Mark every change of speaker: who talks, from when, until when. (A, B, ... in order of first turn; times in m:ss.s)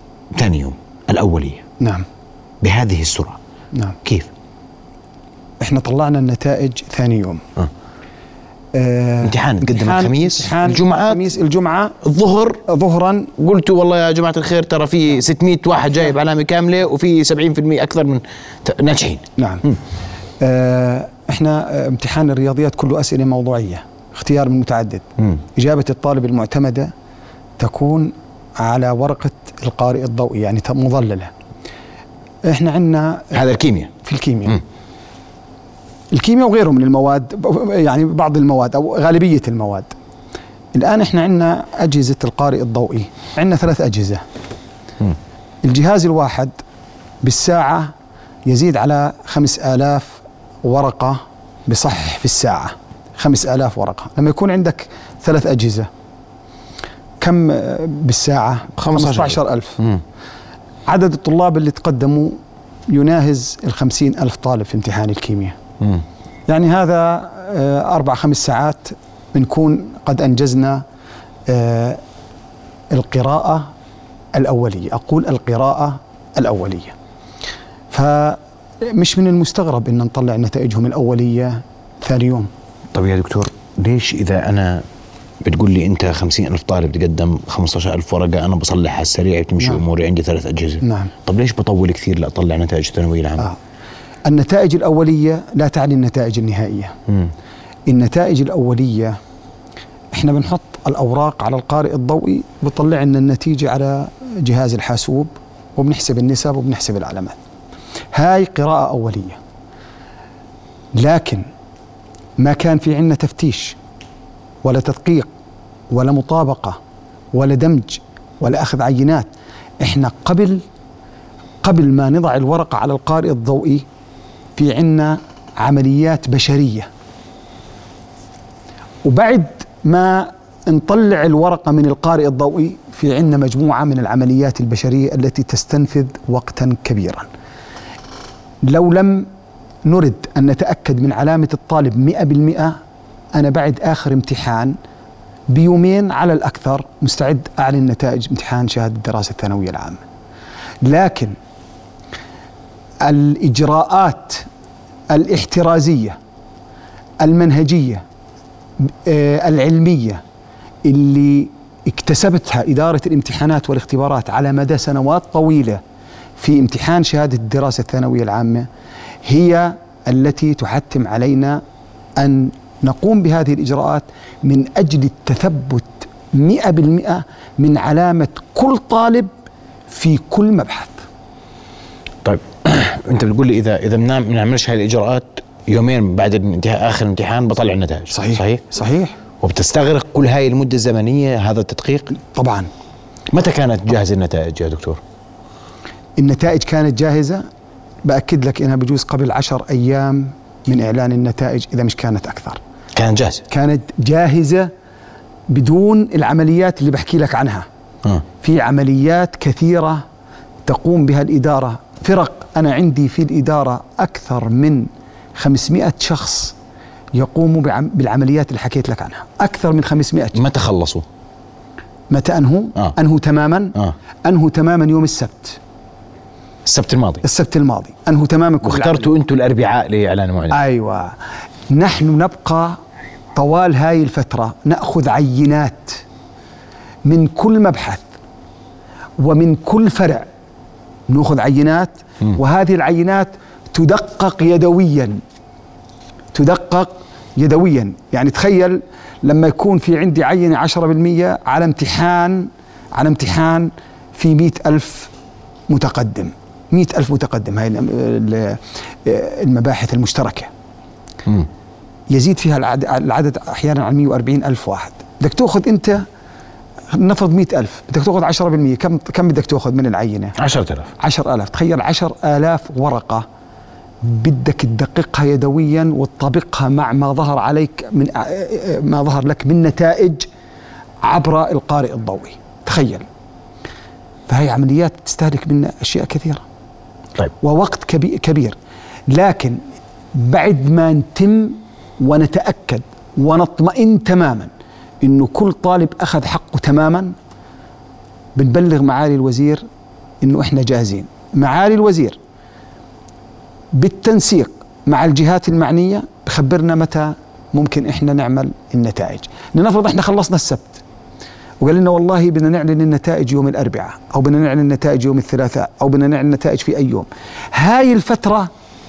0:00.3-0:01.6 A
0:01.8-0:02.1 B
0:02.6-0:03.4 A
0:04.0-0:04.3 A
0:05.6-0:07.4 B
0:08.7-0:12.0 B
0:09.2-0:11.2 A
0:12.0-0:12.6 A
0:12.6-0:13.3 B
0:13.4-0:19.8 A
0:19.4-0:19.6 B
0:20.4-0:26.9 B
0:27.6-0:31.3 B
0:32.5-0:33.4 B
0:33.3-0:33.9 A
0:34.0-0:34.6 B
0:36.1-0:39.9 B
0:40.7-0:44.2 B
0:45.6-0:46.6 B
0:47.2-0:47.9 B
0:48.5-0:55.9 B
0:57.2-0:59.8 B
0:58.8-1:00.0 A
1:00.9-1:02.4 B
1:02.9-1:05.6 B
1:06.5-1:10.8 B
1:11.5-1:12.0 B
1:12.9-1:13.7 B
1:14.3-1:17.0 B
1:17.9-1:22.5 B
1:22.9-1:24.8 A
1:25.4-1:33.5 A
1:30.8-1:31.1 B
1:34.3-1:37.0 B
1:37.9-1:39.2 B
1:40.1-1:47.4 B
1:48.1-1:49.4 B
1:51.0-1:51.4 B
1:52.4-1:53.8 B
1:54.6-1:55.3 B
1:55.9-1:56.8 B
1:57.3-1:59.3 B
1:59.8-2:00.6 B
2:01.6-2:03.8 B
2:04.6-2:06.9 B
2:09.0-2:17.3 B
2:18.7-2:19.3 B
2:19.8-2:22.8 B
2:23.4-2:24.8 B
2:25.5-2:30.0 B
2:30.8-2:31.3 B
2:33.0-2:34.5 B
2:35.1-2:36.2 B
2:37.2-2:38.0 B
2:38.8-2:40.2 B
2:40.8-2:45.8 B
2:46.4-2:48.7 B
2:49.2-2:51.6 B
2:52.2-2:59.3 B
2:59.9-3:01.0 B
3:02.2-3:08.7 A
3:08.1-3:09.2 B
3:09.4-3:12.2 A
3:12.2-3:12.7 B
3:13.3-3:15.0 A
3:16.2-3:17.4 B
3:18.0-3:22.6 B
3:23.0-3:23.4 A
3:23.5-3:24.7 B
3:25.5-3:27.7 B
3:28.4-3:30.0 B
3:30.6-3:36.5 B
3:37.2-3:40.4 B
3:40.3-3:41.0 A
3:42.1-3:45.6 B
3:46.7-3:47.2 A
3:47.2-3:49.1 B
3:48.6-3:50.6 A
3:50.5-3:51.2 B
3:51.7-3:52.8 B
3:53.4-3:56.0 B
3:57.1-3:58.1 B
3:59.2-4:00.3 B
4:01.1-4:05.2 B
4:06.3-4:15.1 B
4:15.7-4:20.5 B
4:22.1-4:26.1 B
4:26.9-4:30.4 B
4:30.4-4:30.9 A
4:31.0-4:33.2 B
4:34.0-4:40.3 B
4:41.0-4:43.1 B
4:44.3-4:46.4 B
4:47.4-4:48.6 B
4:49.1-4:49.6 B
4:50.1-4:54.5 B
4:55.0-4:57.1 B
4:58.4-4:59.6 B
5:00.2-5:02.2 B
5:03.7-5:10.8 B
5:11.6-5:18.5 B